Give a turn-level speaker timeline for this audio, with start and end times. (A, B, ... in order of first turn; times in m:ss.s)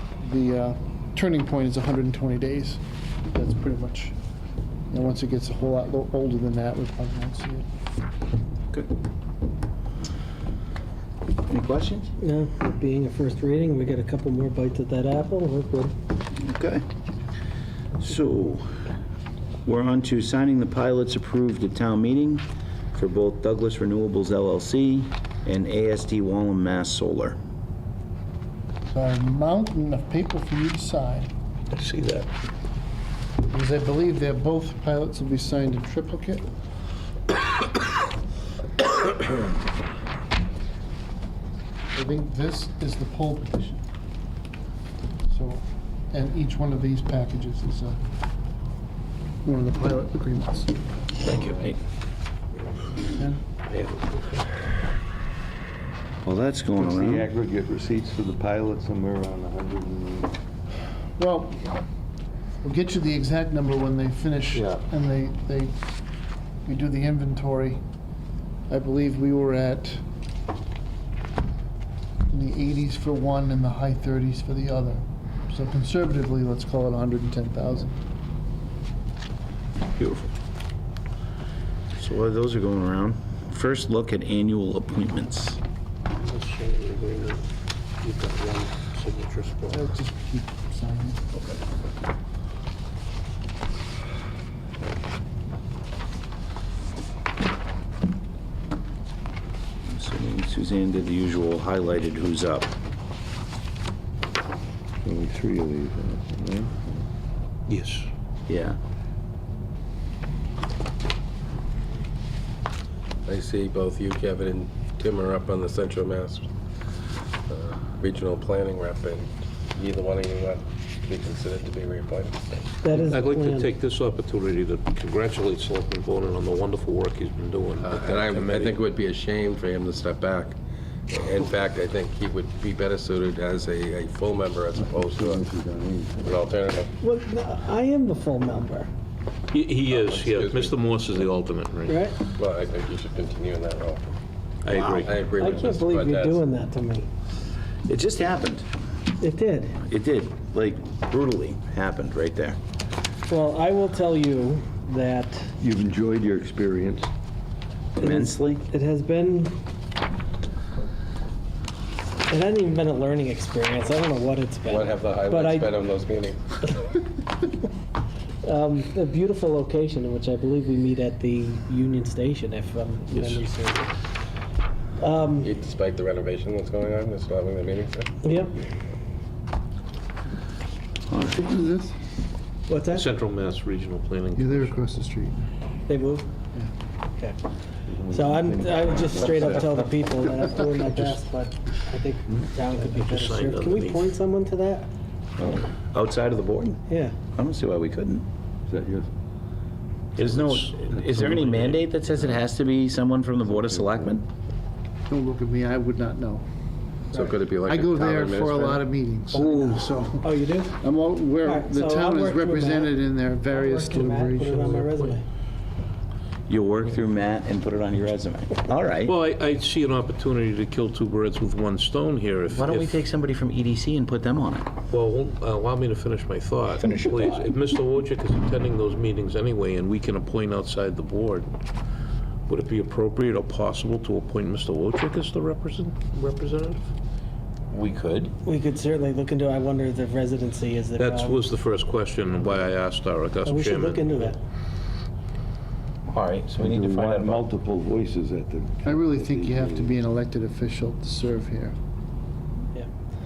0:00.2-0:04.1 A
0:04.9-0:07.6 A
0:11.5-0:12.1 B
0:12.2-0:15.9 C
0:16.4-0:16.8 B
0:18.0-0:18.8 B
0:19.6-0:27.4 B
0:28.9-0:31.3 A
0:31.7-0:32.3 D
0:33.5-0:36.4 A
0:41.9-0:43.8 A
0:45.3-0:48.0 A
0:49.4-0:50.8 A
0:51.2-0:51.8 B
0:53.7-0:54.5 D
0:56.2-0:57.2 B
0:56.8-1:00.3 E
1:01.2-1:01.8 A
1:02.6-1:05.8 A
1:06.6-1:07.8 A
1:08.7-1:10.0 A
1:12.3-1:18.0 A
1:20.0-1:20.2 D
1:21.9-1:25.6 B
1:26.2-1:27.4 D
1:28.0-1:29.8 D
1:29.7-1:31.2 A
1:39.8-1:42.7 B
1:45.0-1:46.9 E
1:47.7-1:48.1 D
1:48.5-1:48.8 B
1:53.2-1:56.5 F
1:57.5-2:02.5 F
2:02.8-2:03.7 C
2:02.9-2:08.8 D
2:07.8-2:10.6 F
2:11.1-2:15.5 F
2:14.8-2:16.3 E
2:16.2-2:16.9 F
2:17.0-2:18.9 C
2:19.5-2:22.1 D
2:19.9-2:20.8 F
2:21.9-2:22.2 C
2:22.3-2:24.0 F
2:24.6-2:25.3 D
2:24.7-2:26.4 F
2:25.3-2:27.1 C
2:27.8-2:28.7 B
2:29.2-2:29.8 C
2:29.8-2:32.6 B
2:33.3-2:35.5 C
2:35.6-2:37.1 E
2:38.0-2:38.6 B
2:38.0-2:39.5 C
2:42.3-2:45.8 C
2:44.7-2:46.5 F
2:48.4-2:54.0 C
2:55.0-2:55.5 C
2:55.4-2:58.1 F
2:58.2-2:58.6 C
3:01.1-3:02.0 A
3:02.7-3:03.0 C
3:02.9-3:04.8 D
3:04.3-3:05.4 A
3:05.9-3:06.2 C
3:07.9-3:09.9 E
3:08.1-3:14.9 C
3:12.7-3:14.1 D
3:15.4-3:15.7 E
3:15.8-3:16.8 B
3:16.9-3:17.2 C
3:17.3-3:18.2 B
3:18.7-3:19.1 E
3:20.2-3:24.2 B
3:20.2-3:21.8 D
3:23.5-3:24.1 E
3:25.1-3:26.4 A
3:27.1-3:28.8 F
3:27.6-3:34.6 A
3:30.2-3:30.8 C
3:31.4-3:35.2 C
3:34.6-3:35.2 D
3:36.5-3:39.1 B
3:39.0-3:43.0 D
3:42.5-3:44.7 B
3:44.9-3:51.5 D
3:46.8-3:47.4 B
3:52.5-3:56.9 D
3:57.7-3:58.3 B
3:58.4-4:01.5 C
4:01.0-4:04.3 D
4:03.4-4:04.4 C
4:06.1-4:07.4 B
4:06.6-4:10.0 E
4:08.8-4:11.7 A